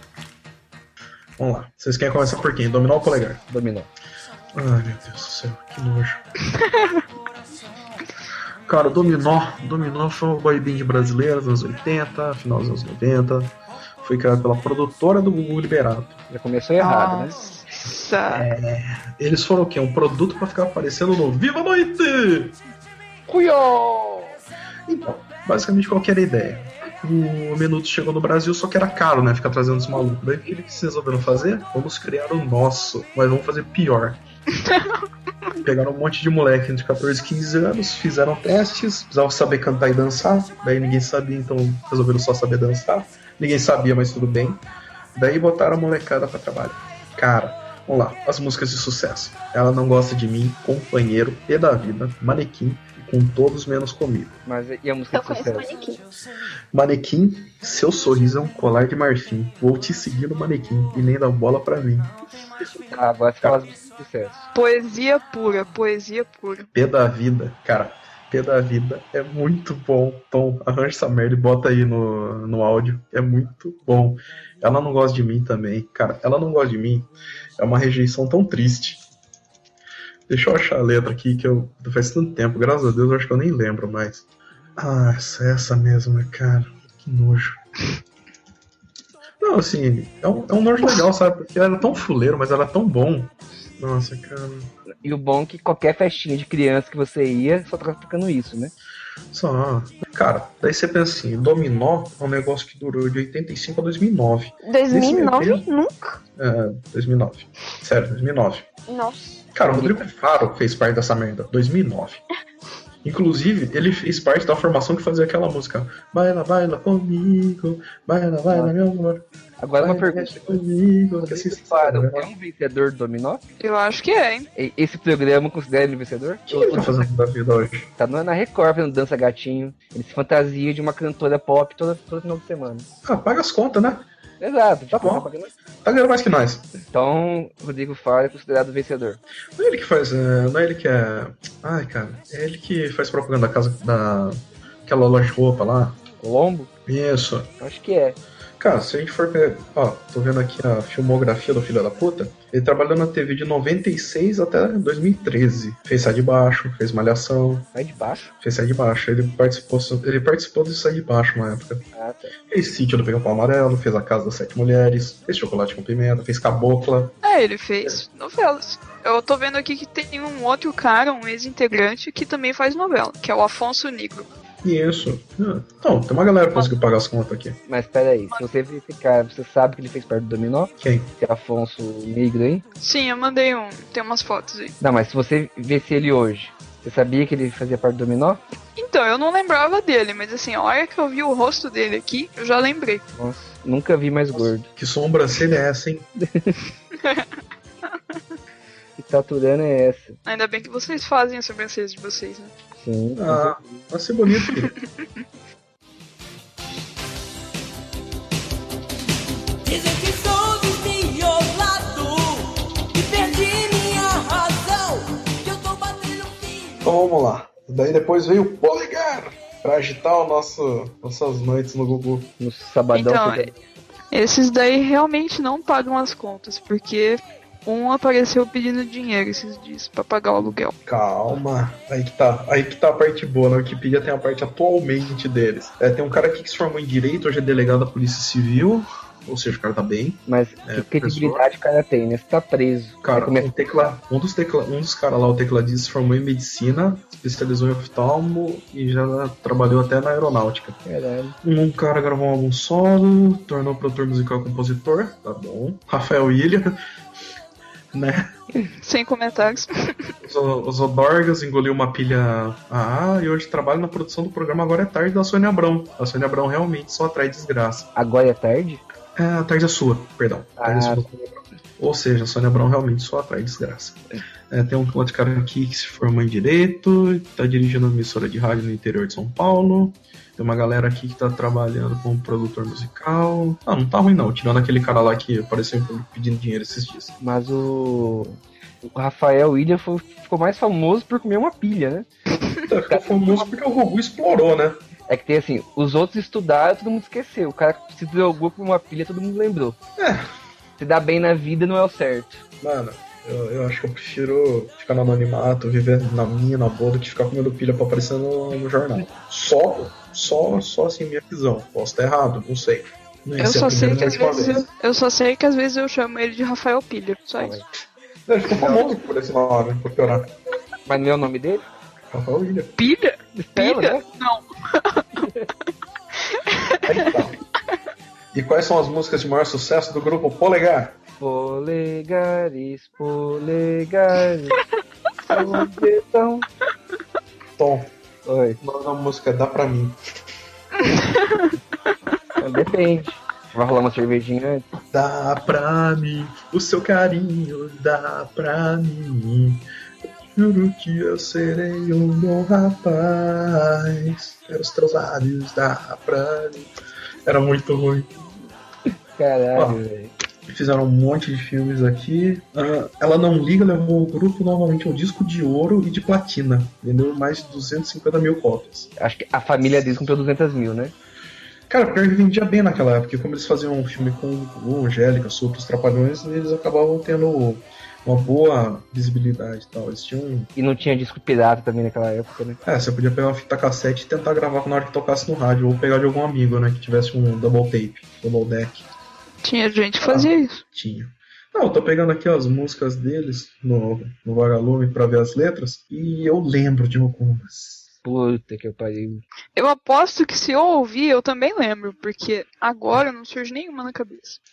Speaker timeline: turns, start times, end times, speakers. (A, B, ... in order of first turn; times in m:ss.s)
0:01.4-0:03.4 A
0:03.5-0:03.9 B
0:04.5-0:06.2 A
0:06.6-0:07.0 C
0:08.7-0:16.2 A
0:16.3-0:17.4 B
0:16.8-0:18.5 C
0:18.3-0:22.6 A
0:23.3-0:24.4 B
0:24.9-0:34.2 A
0:34.6-0:35.0 C
0:35.6-0:44.6 A
0:45.2-0:54.4 A
0:54.5-0:55.7 B
0:55.1-0:56.0 D
0:56.7-1:02.1 A
1:02.8-1:04.5 B
1:04.5-1:06.7 C
1:06.7-1:19.0 A
1:20.3-1:27.6 A
1:29.4-1:34.7 A
1:35.0-1:38.7 B
1:39.3-1:45.7 A
1:44.7-1:46.2 D
1:46.4-1:48.7 A
1:48.9-1:49.4 D
1:49.5-1:52.2 A
1:49.6-1:50.0 B
1:53.0-1:59.2 A
1:59.6-2:00.6 B
1:59.8-2:02.3 A
2:01.2-2:03.4 B
2:03.6-2:04.5 C
2:04.6-2:07.0 B
2:06.5-2:07.9 A
2:08.0-2:12.9 B
2:13.0-2:14.1 A
2:14.4-2:15.5 B
2:14.9-2:15.3 A
2:15.8-2:16.7 A
2:16.9-2:19.2 B
2:19.6-2:26.0 A
2:26.2-2:26.7 B
2:26.9-2:27.5 A
2:27.6-2:28.2 B
2:28.6-2:37.7 A
2:37.7-2:38.3 B
2:38.4-2:41.9 A
2:42.0-2:42.3 B
2:42.5-2:47.2 A
2:47.2-2:54.3 C
2:54.6-2:57.6 A
2:57.7-3:02.6 B
3:00.8-3:01.1 A
3:02.8-3:04.8 C
3:04.8-3:08.4 B
3:08.8-3:13.0 C
3:13.2-3:14.7 B
3:14.3-3:16.1 A
3:16.2-3:16.6 B
3:17.0-3:17.2 C
3:19.0-3:20.2 B
3:20.3-3:22.5 C
3:22.8-3:23.6 B
3:23.2-3:24.7 A
3:24.3-3:24.8 C
3:29.6-3:36.9 E
3:36.8-3:42.3 A
3:42.4-3:43.6 B
3:42.9-3:43.5 C
3:44.1-3:50.7 C
3:50.8-4:01.5 A
4:00.3-4:03.5 B
4:03.0-4:10.8 A
4:10.8-4:11.4 B
4:11.4-4:16.8 A
4:17.9-4:18.3 A
4:18.8-4:20.1 C
4:20.2-4:27.9 A
4:28.0-4:28.8 B
4:29.2-4:34.0 A
4:30.6-4:31.1 B
4:34.5-4:47.2 A
4:47.2-4:52.1 B
4:52.6-4:54.8 A
4:52.9-4:53.4 B
4:55.1-4:59.8 B
5:00.0-5:00.3 A
5:00.8-5:02.4 B
5:02.6-5:14.7 A
5:13.4-5:17.6 C
5:17.4-5:17.7 B
5:18.3-5:20.3 A
5:20.9-5:21.6 B
5:22.1-5:22.7 A
5:22.8-5:25.2 C
5:23.4-5:24.0 B
5:25.2-5:25.5 B
5:26.3-5:27.1 C
5:26.8-5:27.4 A
5:28.3-5:31.0 A
5:31.2-5:34.6 B
5:35.3-5:36.5 B
5:37.6-5:37.9 A
5:38.2-5:38.6 B
5:38.6-5:40.0 A
5:40.8-5:41.5 C
5:42.4-5:44.7 B
5:44.9-5:49.6 A
5:50.3-5:56.7 A
5:57.2-5:58.1 A
5:59.2-6:00.1 B
6:00.5-6:08.9 A
6:09.0-6:10.9 B
6:11.7-6:20.5 A
6:20.6-6:22.6 B
6:22.6-6:28.9 A
6:29.4-6:30.6 C
6:30.0-6:37.9 A
6:38.0-6:39.2 B
6:39.6-6:44.4 C